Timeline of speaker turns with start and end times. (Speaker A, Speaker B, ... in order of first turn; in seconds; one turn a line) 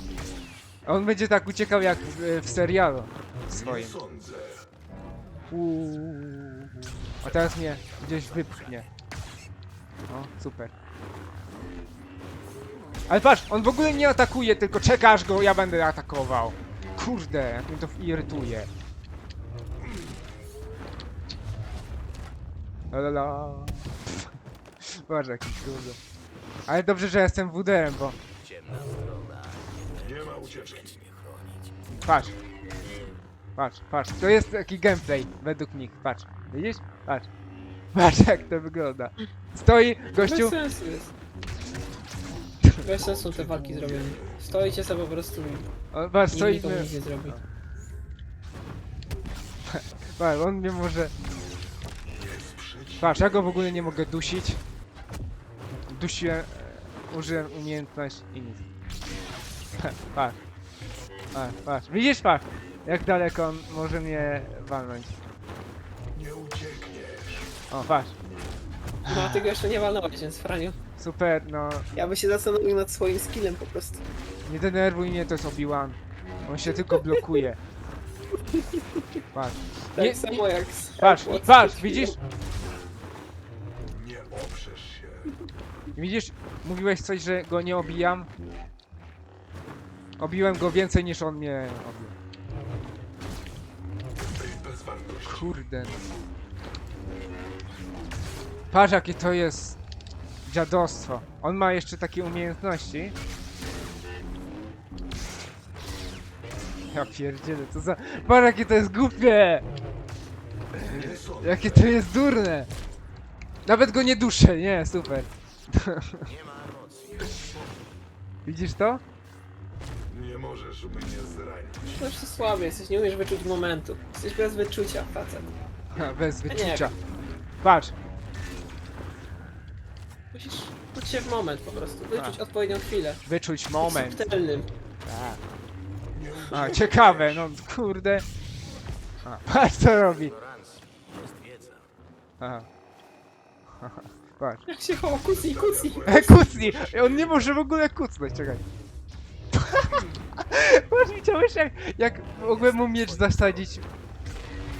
Speaker A: 0.8-4.0
Speaker B: 4.0-4.6
Speaker A: 5.5-8.9
Speaker A: 10.1-10.7
Speaker A: 13.1-18.7
Speaker A: 22.9-24.1
Speaker A: 24.9-26.0
Speaker A: 26.7-28.2
Speaker B: 28.4-31.6
Speaker A: 31.9-32.4
Speaker A: 33.5-37.3
Speaker A: 37.9-40.5
Speaker C: 40.2-41.1
Speaker C: 42.8-45.7
Speaker A: 45.9-47.4
Speaker C: 46.3-47.4
Speaker A: 49.6-51.1
Speaker B: 52.3-52.7
Speaker A: 53.0-54.6
Speaker A: 55.9-58.7
Speaker A: 59.8-60.4
Speaker A: 61.3-65.2
Speaker B: 66.1-67.3
Speaker A: 67.7-68.1
Speaker C: 69.0-70.8
Speaker A: 69.1-69.4
Speaker A: 71.0-71.8
Speaker C: 71.9-74.0
Speaker A: 74.5-77.6
Speaker C: 78.6-79.0
Speaker A: 79.3-80.4
Speaker C: 79.9-82.1
Speaker A: 81.0-82.2
Speaker B: 83.9-85.2
Speaker A: 85.9-88.3
Speaker A: 90.2-92.1
Speaker B: 94.2-95.2
Speaker A: 95.2-96.1
Speaker A: 98.7-99.8
Speaker A: 100.4-103.2
Speaker A: 106.9-109.7
Speaker A: 110.8-112.7
Speaker A: 113.7-116.3
Speaker B: 116.3-117.4
Speaker A: 118.4-119.0
Speaker B: 120.1-121.8
Speaker C: 121.8-125.5
Speaker A: 125.9-126.9
Speaker C: 126.5-126.9
Speaker A: 127.6-128.0
Speaker C: 130.3-133.2
Speaker A: 132.1-132.4
Speaker A: 133.2-134.3
Speaker C: 133.8-134.7
Speaker A: 135.0-135.4
Speaker A: 136.5-138.2
Speaker A: 139.2-140.4
Speaker B: 140.4-141.8
Speaker A: 142.4-142.7
Speaker A: 143.8-144.6
Speaker C: 144.7-146.2
Speaker A: 146.0-148.6
Speaker A: 149.5-153.8